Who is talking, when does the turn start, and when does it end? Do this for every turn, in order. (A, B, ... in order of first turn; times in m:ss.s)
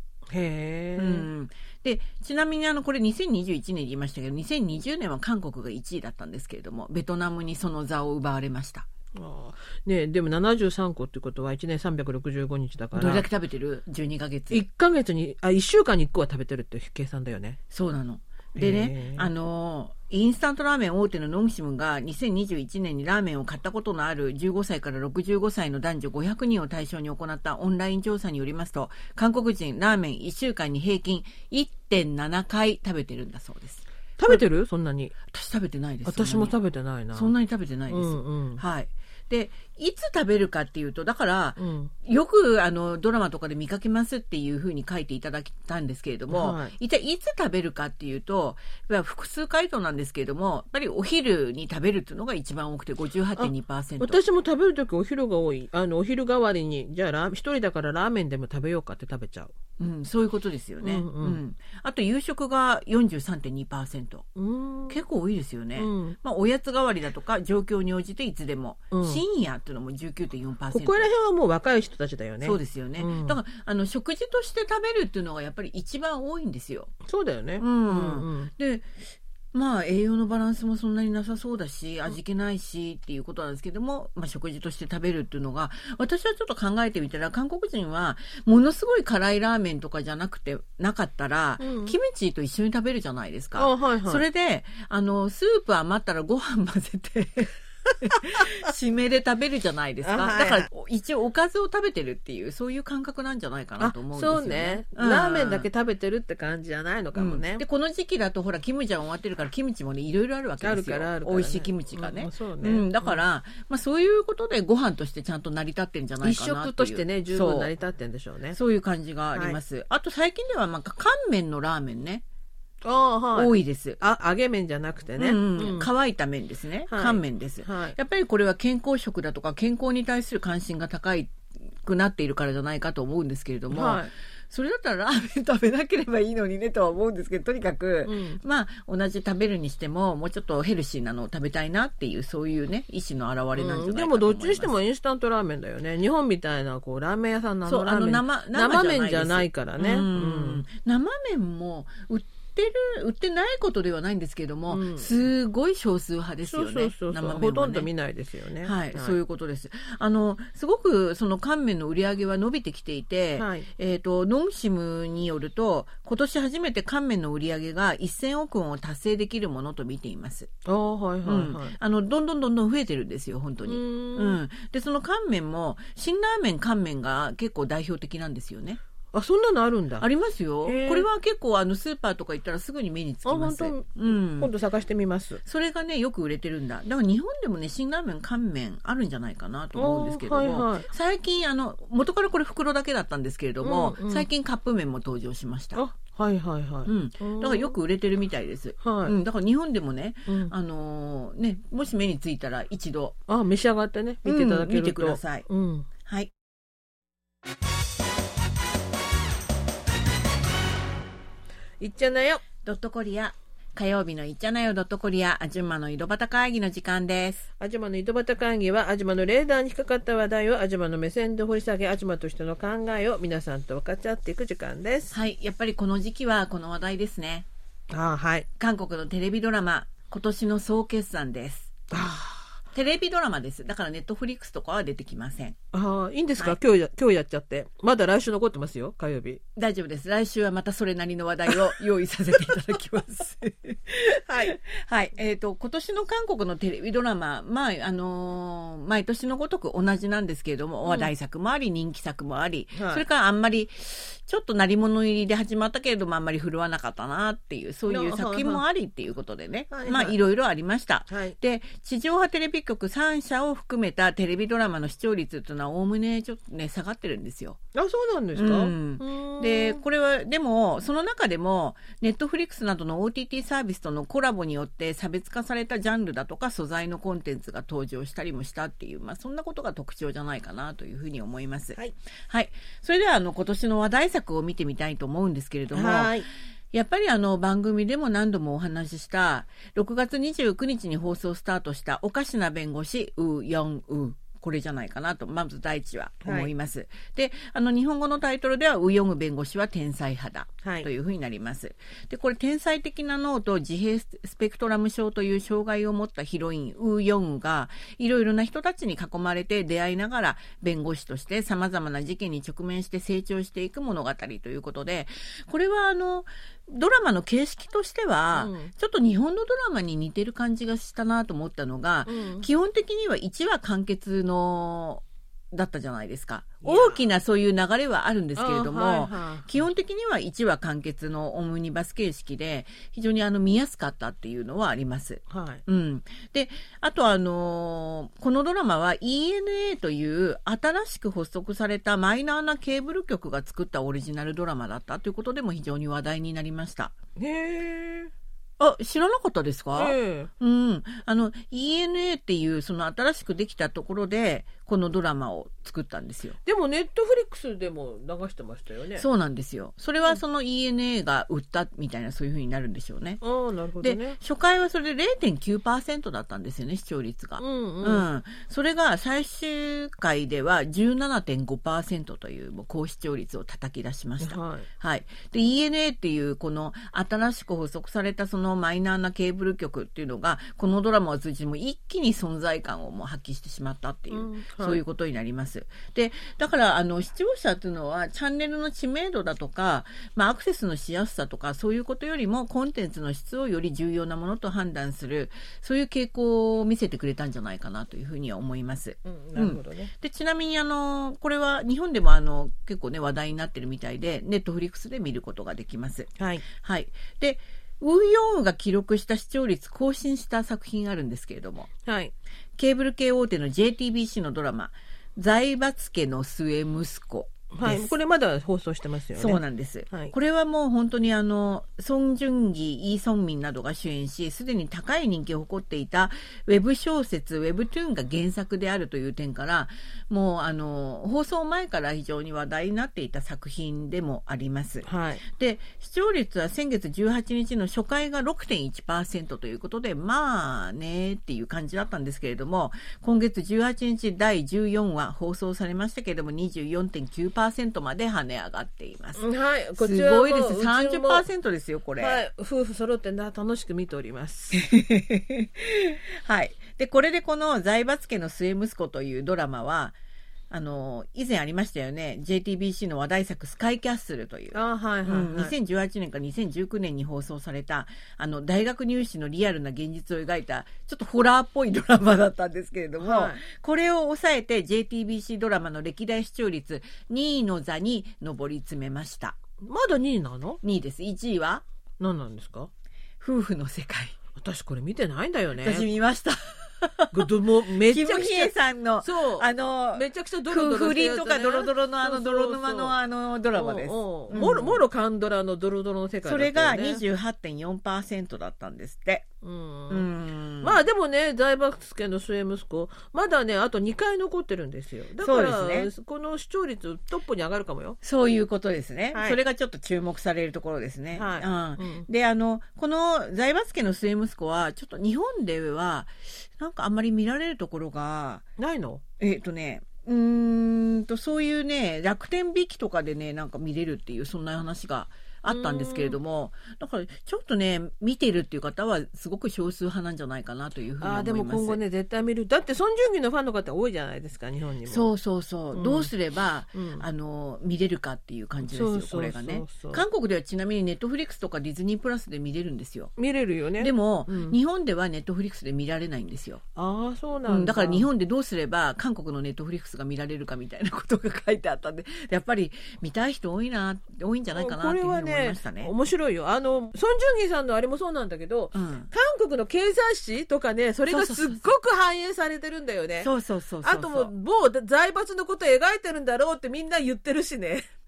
0:00.3-0:01.3 A
0:01.0-0:08.9 B
0:09.1-0:13.2 A
0:12.9-0:14.6 B
0:14.5-0:17.6 A
0:17.7-0:34.4 B
0:18.6-0:19.3 A
0:34.2-0:35.2 A
0:35.3-0:36.5 B
0:36.0-0:37.3 A
0:37.1-0:54.2 B
0:37.9-0:38.6 A
0:41.6-0:41.9 A
0:46.3-0:46.7 A
0:53.4-0:59.5 A
0:59.8-1:04.3 B
1:00.8-1:01.4 A
1:04.4-1:05.0 A
1:04.9-1:11.1 B
1:05.8-1:06.2 A
1:08.9-1:09.2 A
1:10.7-1:13.4 A
1:12.4-1:16.9 B
1:17.0-1:18.5 A
1:17.6-1:18.9 B
1:19.5-1:45.7 B
1:31.6-1:32.0 A
1:33.6-1:34.2 A
1:40.0-1:40.7 A
1:43.8-1:47.6 A
1:47.2-1:57.7 B
1:50.6-1:53.2 A
1:56.2-1:58.6 A
1:58.5-2:02.2 B
2:02.8-2:05.9 A
2:03.3-2:04.0 B
2:05.2-2:24.7 B
2:06.9-2:08.0 A
2:13.7-2:14.1 A
2:18.0-2:18.4 A
2:23.5-2:30.6 A
2:27.6-2:37.9 B
2:34.7-2:35.1 A
2:36.4-2:39.2 A
2:38.6-2:50.5 B
2:43.4-2:43.7 A
2:50.6-2:51.8 A
2:51.2-2:58.8 B
2:53.6-2:54.4 A
2:59.1-3:00.0 A
3:00.0-3:04.5 B
3:00.6-3:01.1 A
3:03.2-3:05.4 A
3:05.4-3:15.8 B
3:09.8-3:10.9 A
3:13.6-3:14.3 A
3:15.7-3:17.8 A
3:16.8-3:23.2 B
3:18.8-3:19.2 A
3:20.3-3:20.5 A
3:23.3-3:25.9 A
3:24.2-3:25.5 B
3:26.0-3:26.3 B
3:31.8-3:32.4 A
3:32.6-3:37.4 B
3:37.6-3:45.1 A
3:45.1-3:47.5 B
3:47.9-3:48.5 A
3:48.6-3:51.9 B
3:51.9-3:52.5 A
3:52.7-3:55.6 B
3:55.7-3:59.4 A
3:59.6-4:27.6 B
4:04.3-4:04.5 A
4:12.7-4:13.0 A
4:17.9-4:18.6 A
4:19.7-4:20.2 A
4:21.1-4:21.4 A
4:27.7-4:29.8 A
4:28.3-4:41.8 B
4:42.3-5:46.9 B
4:45.7-4:46.3 A
4:56.2-4:56.5 A
5:00.6-5:00.9 A
5:18.3-5:18.7 A
5:22.0-5:22.5 A
5:26.6-5:27.1 A
5:28.4-5:29.6 A
5:35.3-5:35.6 A
5:47.2-5:48.1 A
5:48.6-5:56.4 B
5:49.7-5:50.3 A
5:56.4-5:59.0 A
5:59.0-6:03.2 B
6:03.2-6:04.2 A
6:03.8-6:51.7 B
6:07.4-6:08.0 A
6:14.2-6:14.7 A
6:24.1-6:24.8 A
6:39.0-6:39.9 A
6:46.2-6:46.4 A
6:51.8-6:52.1 A
6:52.6-6:57.9 B
6:57.5-7:00.1 A
6:59.2-7:32.2 B
7:14.8-7:15.2 A
7:29.2-7:31.2 A
7:32.0-7:34.6 A
7:34.5-7:40.0 B
7:40.5-7:59.4 B
7:44.5-7:45.5 A
7:53.0-7:53.4 A
7:59.6-8:00.6 A
8:00.6-8:01.6 B
8:02.0-8:02.7 A
8:03.2-8:04.2 B
8:04.4-8:05.9 A
8:05.6-8:14.8 B
8:07.1-8:13.0 A
8:13.5-8:17.0 A
8:16.2-8:19.3 B
8:19.4-8:20.1 A
8:19.9-8:20.8 B
8:20.6-8:28.0 A
8:25.2-8:25.9 B
8:28.0-8:38.4 B
8:29.1-8:29.4 A
8:31.1-8:32.0 A
8:38.6-8:39.0 A
8:39.2-8:51.8 B
8:45.5-8:46.2 A
8:51.0-8:55.1 A
8:54.9-9:03.1 B
8:55.7-8:56.1 A
8:56.7-8:57.0 A
8:58.6-9:00.0 A
9:03.2-9:04.6 A
9:03.8-9:06.6 B
9:06.8-9:08.1 A
9:07.4-9:15.9 B
9:14.5-9:23.3 A
9:18.7-9:19.1 B
9:21.1-9:21.7 B
9:23.2-9:24.3 B
9:23.8-9:27.9 A